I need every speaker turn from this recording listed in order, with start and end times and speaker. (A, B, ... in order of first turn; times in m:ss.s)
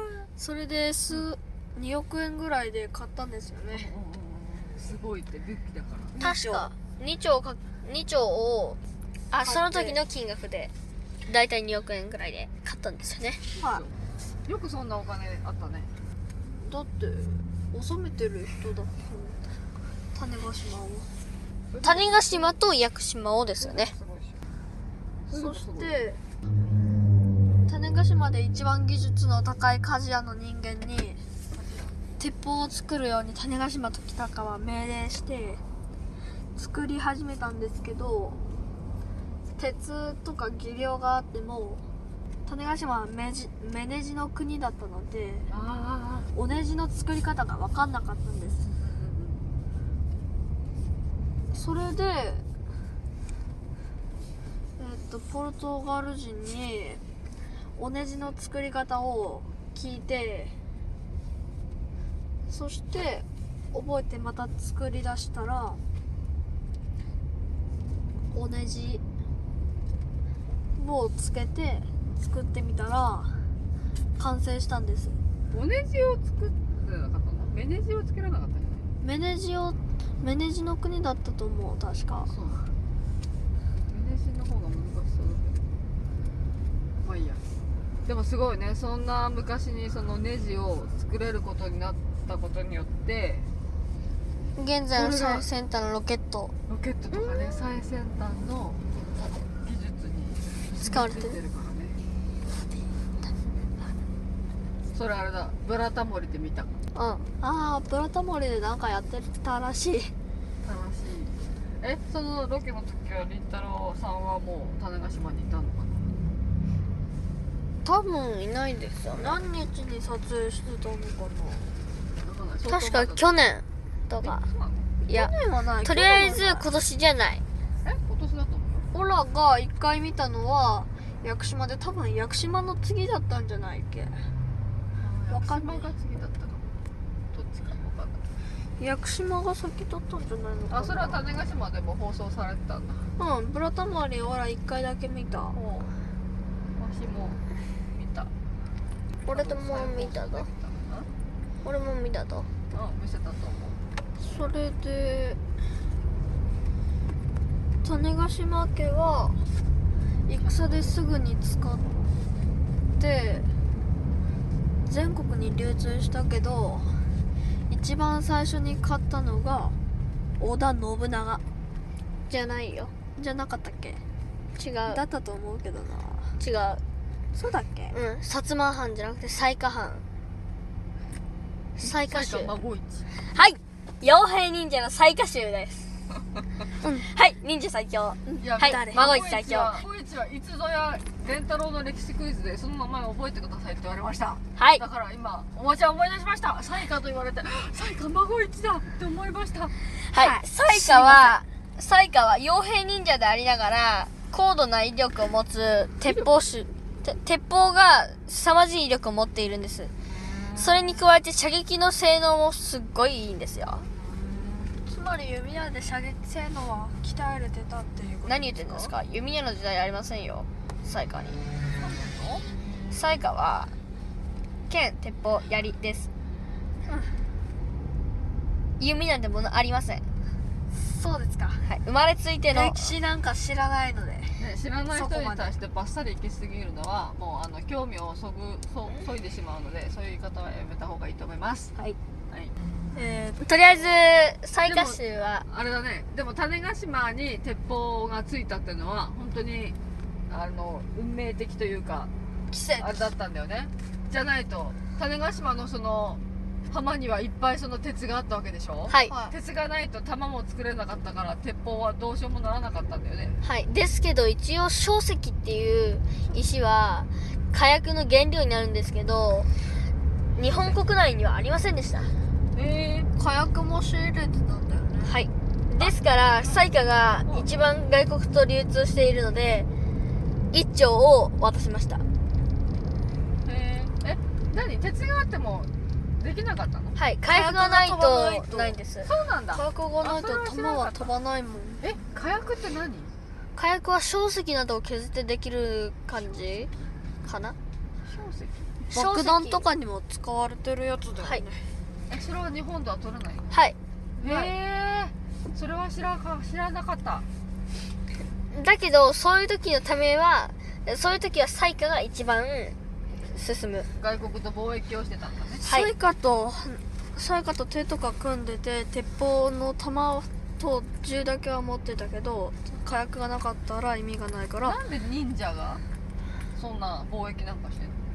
0:00.3-0:03.9 A
0:03.7-0:06.2 B
0:06.1-0:06.7 A
0:06.2-0:08.8 C
0:09.3-0:10.7 C
0:09.4-0:10.0 A
0:11.3-0:13.4 C
0:13.6-0:15.9 B
0:13.6-0:13.8 A
0:16.5-0:19.4 A
0:20.1-0:21.1 A
0:21.7-0:22.5 B
0:21.8-0:23.9 C
0:23.6-0:24.4 B
0:25.3-0:25.9 B
0:25.3-0:26.2 A
0:27.7-0:31.2 A
0:31.5-0:32.0 B
0:32.2-0:35.6 A
0:36.6-0:38.4 A
0:39.6-0:41.8 A
0:42.5-0:45.5 A
0:45.5-0:46.3 B
0:46.3-0:48.7 A
0:48.8-0:49.4 B
0:51.5-0:52.4 A
0:54.8-0:57.0 A
0:57.8-1:00.5 A
1:02.5-1:05.8 A
1:08.3-1:09.0 A
1:10.8-1:13.3 A
1:14.2-1:15.2 A
1:15.5-1:18.9 B
1:19.0-1:22.3 A
1:22.2-1:22.6 B
1:23.9-1:25.6 B
1:27.0-1:27.4 B
1:28.0-1:33.5 B
1:34.6-1:36.5 C
1:34.9-1:35.5 B
1:36.7-1:42.0 B
1:37.2-1:37.5 A
1:40.8-1:41.4 C
1:44.9-1:46.8 B
1:46.9-1:47.3 C
1:47.3-1:50.1 A
1:50.6-1:56.1 B
1:57.8-1:59.4 C
1:59.1-2:01.7 A
2:02.2-2:03.3 B
2:02.6-2:04.4 C
2:04.2-2:04.9 B
2:05.0-2:06.7 A
2:05.8-2:07.4 C
2:07.8-2:08.9 B
2:08.9-2:14.2 A
2:15.0-2:16.6 B
2:15.3-2:15.9 A
2:17.3-2:18.2 B
2:18.8-2:21.2 A
2:20.7-2:23.0 B
2:23.2-2:25.6 A
2:25.5-2:25.9 B
2:26.8-2:28.3 B
2:29.3-2:30.5 C
2:29.3-2:31.1 B
2:31.6-2:32.5 C
2:32.7-2:33.8 B
2:34.2-2:35.4 A
2:37.8-2:39.4 A
2:40.3-2:41.9 A
2:40.4-2:40.9 B
2:43.0-2:43.5 A
2:44.8-2:46.9 A
2:47.7-2:49.8 A
2:50.4-2:51.4 A
2:52.3-2:52.9 C
2:53.1-2:54.0 A
2:54.6-2:55.0 C
2:54.9-2:56.4 A
2:56.4-2:56.8 C
2:57.3-2:57.9 A
2:57.9-3:00.0 C
3:01.8-3:02.5 C
3:01.8-3:03.1 B
3:03.3-3:05.9 C
3:06.8-3:07.1 A
3:07.0-3:09.8 C
3:08.2-3:09.1 A
3:08.4-3:19.7 B
3:14.6-3:14.8 C
3:20.1-3:29.9 C
3:20.1-3:21.4 A
3:26.0-3:26.3 B
3:30.1-3:31.0 B
3:30.6-3:33.8 C
3:34.0-3:34.7 B
3:34.8-3:38.9 A
3:38.2-3:41.4 C
3:41.8-3:42.4 B
3:42.9-3:43.7 C
3:44.7-3:46.1 C
3:48.8-3:50.0 C
3:50.7-3:51.6 A
3:51.6-3:52.9 C
3:52.5-3:55.5 A
3:54.4-4:01.7 B
4:02.9-4:03.5 A
4:03.4-4:05.4 C
4:04.6-4:09.8 B
4:10.3-4:12.1 B
4:12.5-4:13.0 A
4:12.8-4:23.4 B
4:19.1-4:19.3 A
4:23.4-4:29.5 C
4:30.4-4:32.1 C
4:30.5-4:30.8 B
4:32.5-4:33.1 B
4:33.2-4:35.1 A
4:35.0-4:39.7 C
4:35.8-4:36.7 B
4:40.5-4:42.0 C
4:43.4-4:47.0 B
4:47.0-4:49.1 C
4:47.3-4:48.7 A
4:49.0-4:51.1 B
4:49.5-4:51.8 A
4:51.8-4:53.1 B
4:53.6-4:56.7 C
4:57.2-4:57.6 C
4:58.0-4:58.8 B
4:58.9-4:59.6 C
4:58.9-5:01.7 A
5:02.1-5:03.6 B
5:03.5-5:03.8 C
5:04.2-5:04.5 A
5:04.2-5:07.2 B
5:08.5-5:12.7 C
5:13.3-5:13.9 C
5:14.0-5:15.6 B
5:15.6-5:24.8 A
5:15.6-5:15.9 C
5:24.6-5:25.8 B
5:26.6-5:28.0 B